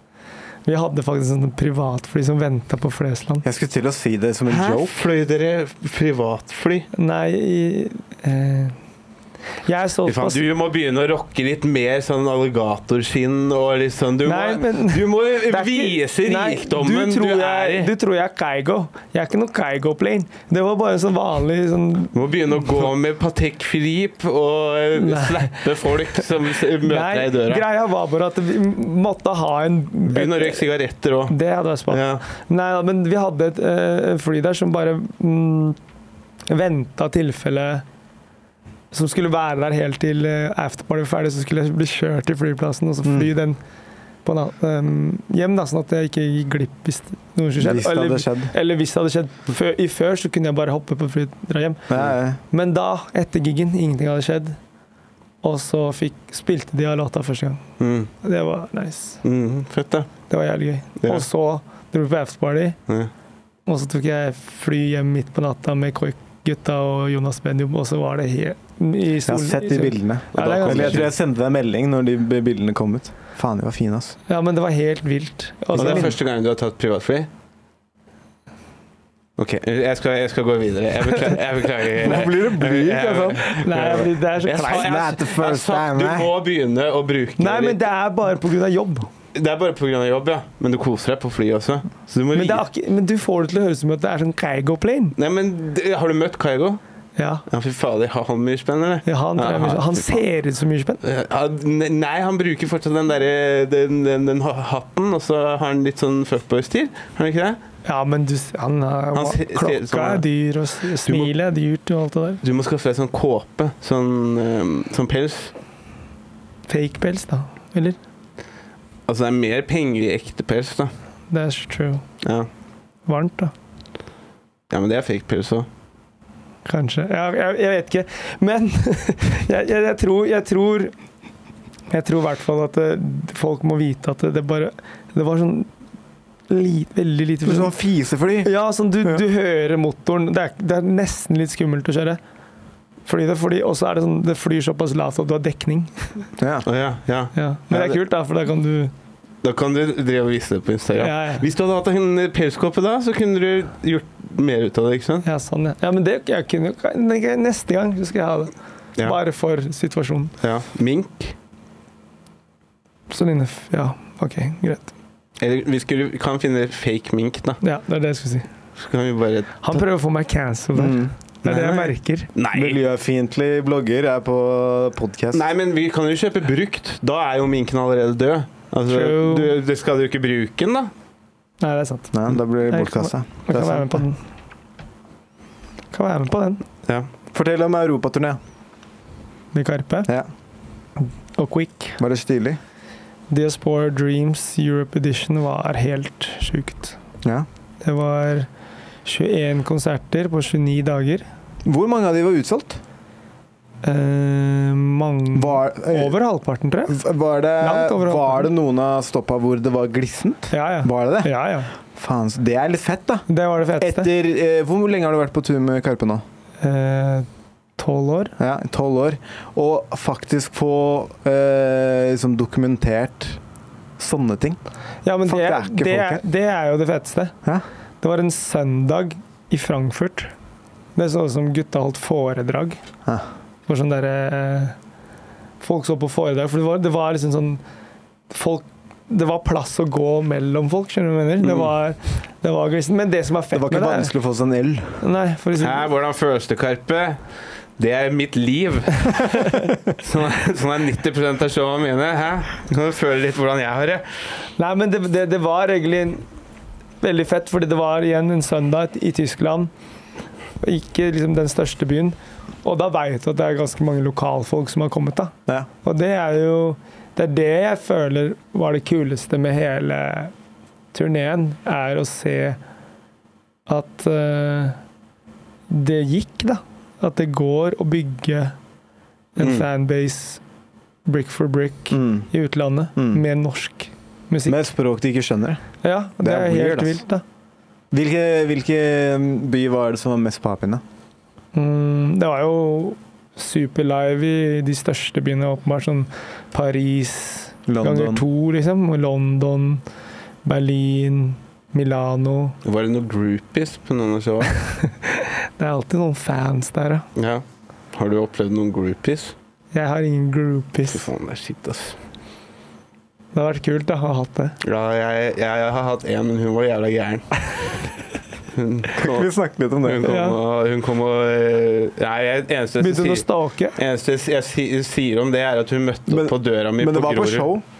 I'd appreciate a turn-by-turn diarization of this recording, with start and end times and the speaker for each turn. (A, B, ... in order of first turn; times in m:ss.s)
0:00.6-0:03.4 A
0:03.4-0:04.9 B
0:04.5-0:06.9 C
0:06.9-0:08.7 A
0:09.6-0:10.4 A
0:10.0-0:17.9 C
0:14.2-0:22.1 A
0:22.1-0:27.6 C
0:24.9-0:25.7 A
0:26.8-0:30.6 A
0:30.0-0:31.4 C
0:31.3-0:35.8 A
0:31.9-0:32.2 C
0:36.5-0:37.8 A
0:38.9-0:43.6 A
0:43.0-0:43.3 B
0:44.2-0:51.9 A
0:47.6-0:48.5 B
0:51.9-0:52.4 B
0:52.4-0:54.6 A
0:55.4-0:57.6 A
0:57.8-0:58.1 C
0:58.2-0:59.2 A
0:59.2-1:00.1 C
1:00.3-1:02.8 A
1:01.0-1:01.2 C
1:03.6-1:11.1 A
1:09.2-1:14.2 B
1:10.3-1:11.1 C
1:14.3-1:16.2 A
1:15.7-1:17.3 C
1:15.8-1:16.1 B
1:19.4-1:27.8 C
1:22.0-1:23.6 B
1:23.5-1:25.0 A
1:24.7-1:26.3 B
1:27.4-1:29.1 A
1:29.3-1:32.6 C
1:32.3-1:35.1 A
1:35.2-1:36.8 C
1:37.2-1:37.4 A
1:37.5-1:40.2 C
1:39.0-1:41.0 A
1:41.0-1:47.6 C
1:47.8-1:52.4 A
1:49.1-1:50.2 C
1:51.0-1:51.3 C
1:52.4-1:55.5 C
1:56.7-1:58.0 A
1:59.1-2:00.9 C
2:01.3-2:02.0 A
2:02.2-2:02.5 C
2:03.0-2:03.5 A
2:04.7-2:05.7 C
2:06.6-2:10.9 A
2:11.9-2:15.7 A
2:16.5-2:17.7 A
2:17.4-2:18.5 B
2:18.4-2:22.2 A
2:23.0-2:26.3 A
2:26.4-2:26.6 B
2:26.6-2:28.0 C
2:27.3-2:28.9 A
2:29.4-2:35.2 C
2:31.0-2:31.4 A
2:35.2-2:40.3 A
2:40.4-2:41.3 C
2:43.1-2:44.9 A
2:45.4-2:47.6 C
2:47.6-2:48.5 A
2:48.8-2:49.8 C
2:49.6-2:52.3 A
2:50.7-2:51.1 B
2:51.4-2:52.8 C
2:52.5-2:55.4 B
2:55.3-3:00.9 C
2:58.9-2:59.5 A
3:01.6-3:04.2 A
3:02.1-3:04.0 B
3:05.9-3:06.6 A
3:07.3-3:08.4 B
3:09.5-3:10.1 A
3:11.0-3:12.0 A
3:12.0-3:12.6 B
3:13.3-3:16.9 A
3:17.8-3:18.5 A
3:19.0-3:21.2 A
3:21.6-3:22.8 B
3:23.8-3:27.0 A
3:25.3-3:26.2 B
3:26.9-3:31.3 B
3:27.6-3:28.5 A
3:30.5-3:31.7 A
3:31.8-3:33.2 B
3:33.3-3:34.1 A
3:33.8-3:36.2 B
3:36.6-3:38.3 A
3:38.4-3:43.4 B
3:44.0-3:44.6 B
3:45.0-3:47.4 A
3:45.2-3:46.2 B
3:48.0-3:50.3 A
3:50.9-3:52.8 A
3:53.7-3:54.8 A
3:55.6-3:57.6 A
3:58.3-4:04.1 A
4:01.4-4:01.7 C
4:03.5-4:05.0 B
4:05.0-4:05.8 A
4:05.6-4:07.2 C
4:07.8-4:14.0 C
4:14.6-4:16.2 A
4:17.0-4:19.7 A
4:20.6-4:30.3 A
4:30.9-4:32.6 A
4:33.7-4:34.8 A
4:35.7-4:38.5 A
4:39.4-4:40.4 A
4:39.4-4:39.6 C
4:41.0-4:44.6 A
4:41.9-4:42.3 B
4:43.0-4:43.2 B
4:44.5-4:45.6 B
4:45.8-4:47.2 A
4:46.2-4:47.0 B
4:47.9-4:50.8 B
4:51.5-4:59.8 A
4:57.7-4:58.2 B
5:00.4-5:02.6 A
5:02.6-5:04.6 C
5:04.8-5:07.0 A
5:07.2-5:09.3 C
5:09.7-5:11.0 A
5:10.8-5:12.0 C
5:13.3-5:14.6 A
5:14.6-5:17.8 C
5:18.5-5:19.3 C
5:19.0-5:20.3 B
5:19.8-5:27.5 C
5:20.1-5:20.4 A
5:22.8-5:23.8 A
5:26.1-5:27.6 B